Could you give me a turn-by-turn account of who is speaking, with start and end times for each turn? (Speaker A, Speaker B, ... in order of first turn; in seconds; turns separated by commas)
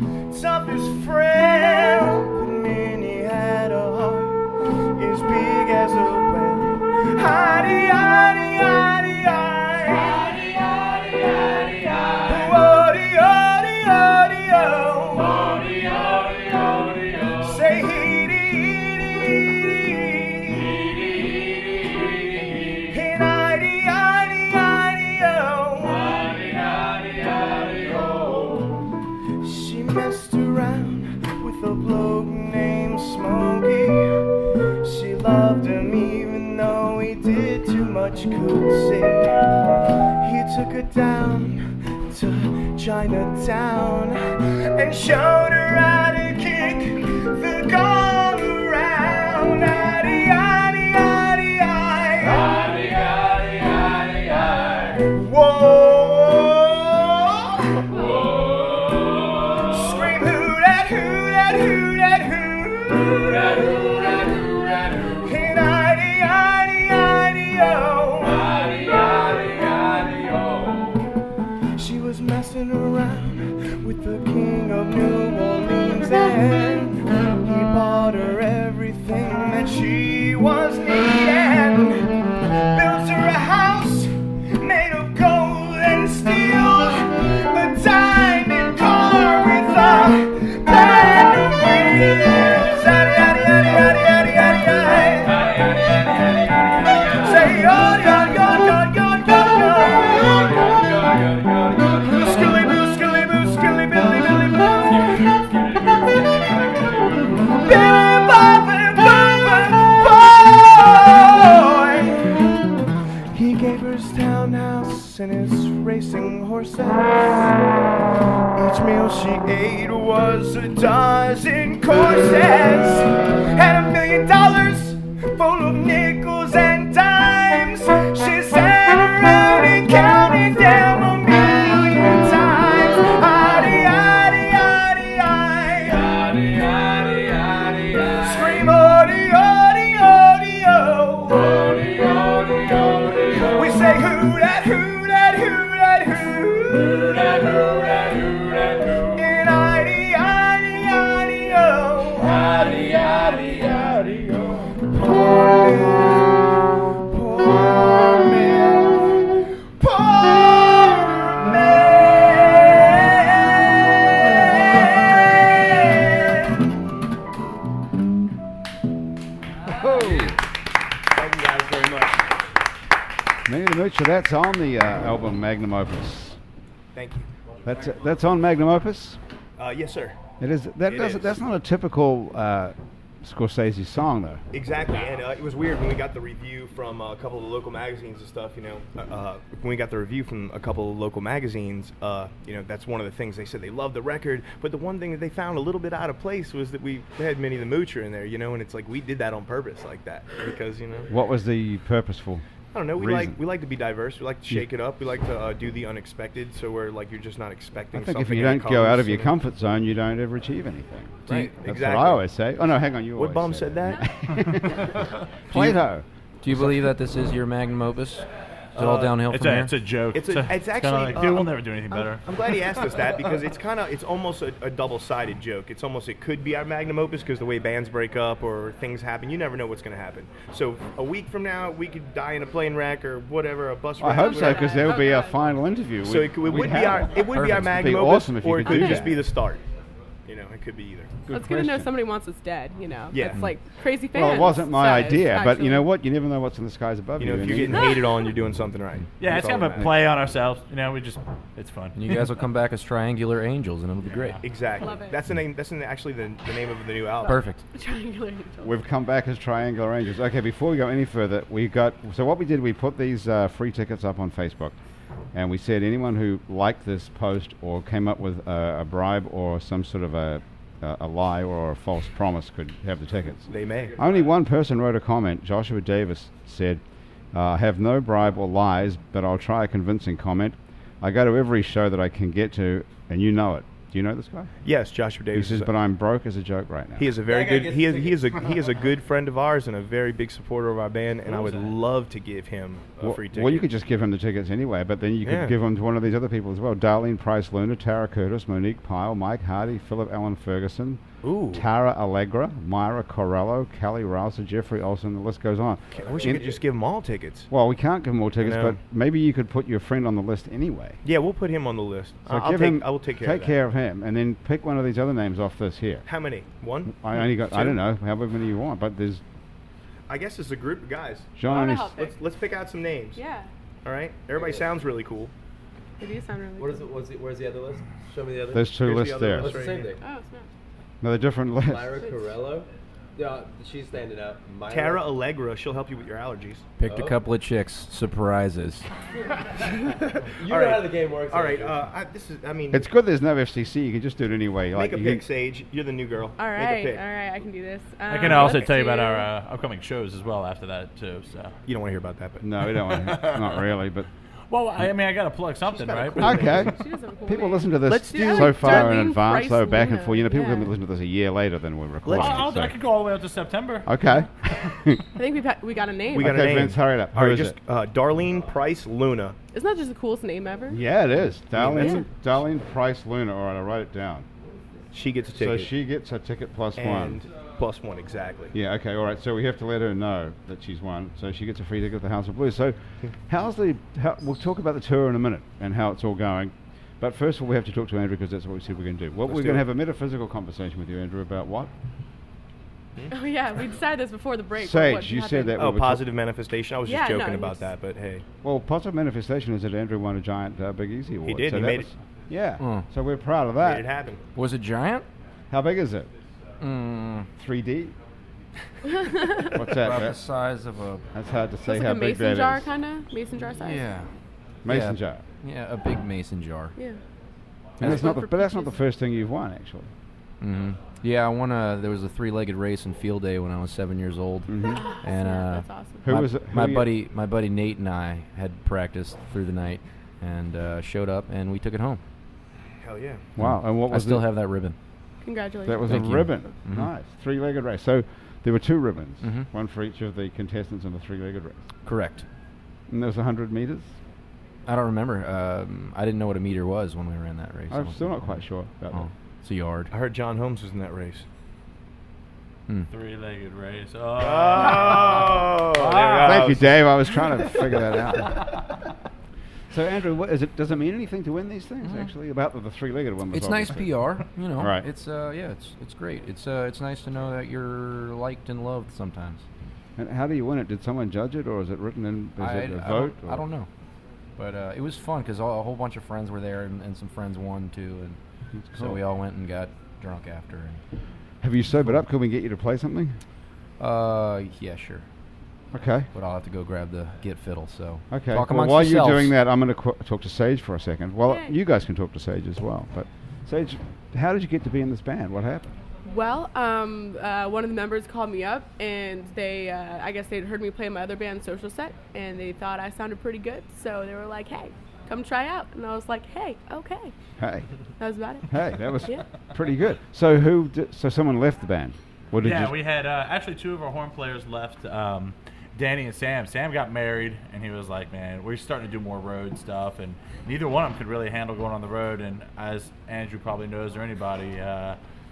Speaker A: 0.3-4.4, Speaker A: 5.0-10.8, Speaker A: 12.1-16.2, Speaker A: 17.2-21.2, Speaker A: 22.7-26.7, Speaker A: 27.6-28.8, Speaker A: 29.4-39.5, Speaker A: 40.2-53.0, Speaker A: 54.8-58.2, Speaker A: 59.3-68.9, Speaker A: 71.8-95.8, Speaker A: 96.9-112.7, Speaker A: 113.3-117.6, Speaker A: 118.5-154.0, Speaker A: 154.7-166.7, Speaker A: 169.8-170.3, Speaker B: 169.9-170.3, Speaker A: 171.1-172.3, Speaker C: 173.5-176.4, Speaker A: 176.9-177.3, Speaker C: 177.6-179.2, Speaker A: 179.6-180.2, Speaker C: 180.4-184.4, Speaker A: 180.9-181.4, Speaker A: 184.5-201.1, Speaker C: 201.1-202.4, Speaker A: 202.7-209.4, Speaker C: 202.9-203.4, Speaker C: 207.9-216.1, Speaker B: 211.3-211.6, Speaker A: 211.3-212.2, Speaker A: 213.2-214.1, Speaker B: 215.5-215.8, Speaker B: 216.4-219.8, Speaker A: 218.8-219.1, Speaker D: 218.8-222.8, Speaker A: 220.1-235.0, Speaker C: 234.0-239.3, Speaker E: 234.1-235.5, Speaker A: 236.0-239.6, Speaker E: 238.7-239.1, Speaker A: 240.3-241.2, Speaker C: 241.3-241.9, Speaker E: 241.3-245.9, Speaker A: 243.1-243.5, Speaker C: 244.1-248.0, Speaker A: 247.2-249.9, Speaker D: 249.2-252.0, Speaker B: 251.9-254.4, Speaker D: 254.1-254.4, Speaker A: 254.4-257.4, Speaker E: 254.8-255.2, Speaker B: 257.3-257.6, Speaker E: 257.7-258.8, Speaker C: 258.6-264.8, Speaker C: 265.3-284.5, Speaker A: 273.5-274.0, Speaker A: 284.6-285.7, Speaker C: 285.3-287.1, Speaker A: 287.0-293.7, Speaker F: 287.3-288.6, Speaker D: 291.3-291.7, Speaker C: 293.0-306.5, Speaker A: 295.2-295.6, Speaker A: 301.2-301.6, Speaker A: 305.9-307.5, Speaker F: 306.1-306.5, Speaker C: 307.5-311.0, Speaker A: 308.4-308.8, Speaker A: 311.0-313.6, Speaker C: 312.3-316.1, Speaker A: 316.1-317.8, Speaker C: 316.9-319.2, Speaker A: 320.1-323.2, Speaker C: 321.4-321.9, Speaker E: 321.5-322.1, Speaker E: 323.2-323.5, Speaker A: 323.8-325.3, Speaker F: 324.3-324.7, Speaker E: 326.0-326.9, Speaker F: 326.6-330.0, Speaker C: 328.5-329.6, Speaker A: 328.8-329.9, Speaker E: 330.0-330.5, Speaker C: 331.0-331.9, Speaker F: 331.6-335.0, Speaker E: 332.0-332.4, Speaker A: 334.7-336.7, Speaker B: 336.8-338.9, Speaker F: 336.9-337.2, Speaker F: 340.4-341.8, Speaker A: 340.4-342.9, Speaker C: 342.7-345.2, Speaker A: 344.7-347.0, Speaker E: 346.4-349.3, Speaker D: 348.1-351.5, Speaker A: 348.2-348.6, Speaker A: 351.7-352.5, Speaker C: 352.4-354.1, Speaker D: 352.6-353.7, Speaker D: 354.5-356.7, Speaker A: 355.7-356.8, Speaker C: 356.2-362.8, Speaker E: 356.6-360.7, Speaker A: 357.9-359.0, Speaker A: 362.1-362.5, Speaker D: 362.1-363.9, Speaker C: 363.9-365.0, Speaker E: 365.1-366.4, Speaker A: 366.1-369.4, Speaker C: 366.1-367.6, Speaker E: 369.5-370.8, Speaker C: 370.7-374.3, Speaker A: 371.5-372.1, Speaker E: 371.8-372.0, Speaker A: 374.9-375.7, Speaker C: 375.4-377.2, Speaker A: 376.8-378.5, Speaker C: 378.5-391.7, Speaker A: 389.3-389.7, Speaker E: 393.1-395.5, Speaker C: 394.6-396.1, Speaker A: 395.6-398.2, Speaker E: 396.9-397.7, Speaker C: 398.4-403.9, Speaker A: 401.2-401.9, Speaker B: 402.6-402.9, Speaker A: 403.6-404.2, Speaker B: 404.4-405.1, Speaker C: 405.5-406.1, Speaker B: 406.6-407.3, Speaker C: 407.3-407.9, Speaker E: 408.9-409.6, Speaker C: 409.5-410.2, Speaker B: 409.6-411.1, Speaker C: 411.1-412.7, Speaker E: 411.7-414.0, Speaker B: 413.6-414.1, Speaker C: 414.6-415.2, Speaker B: 414.7-416.8, Speaker E: 417.8-418.8, Speaker C: 417.8-419.9, Speaker B: 420.4-432.0, Speaker C: 424.5-424.8, Speaker E: 424.7-426.1, Speaker C: 426.0-427.0, Speaker A: 432.8-433.3, Speaker C: 433.4-434.3, Speaker B: 433.4-434.8, Speaker E: 435.2-436.0, Speaker C: 435.7-441.6, Speaker B: 435.9-436.9, Speaker B: 439.2-439.5, Speaker B: 441.9-442.3, Speaker C: 442.9-443.9, Speaker B: 444.7-448.4, Speaker C: 447.7-449.1, Speaker B: 448.9-449.9, Speaker A: 449.9-451.2, Speaker D: 452.9-456.8, Speaker A: 454.2-456.8, Speaker C: 456.2-458.6, Speaker C: 459.7-464.0, Speaker B: 461.8-462.1, Speaker B: 463.3-469.4, Speaker C: 464.6-464.9, Speaker C: 470.0-473.4, Speaker B: 472.4-473.7, Speaker B: 474.4-478.2, Speaker C: 478.6-479.0, Speaker B: 478.7-480.8, Speaker C: 481.4-483.2, Speaker B: 483.8-485.1, Speaker C: 485.7-486.1, Speaker B: 486.1-489.4, Speaker C: 488.1-495.8, Speaker E: 491.3-491.6, Speaker E: 496.1-507.1, Speaker C: 507.4-507.7, Speaker E: 508.0-509.3, Speaker C: 508.5-512.8, Speaker D: 512.4-525.0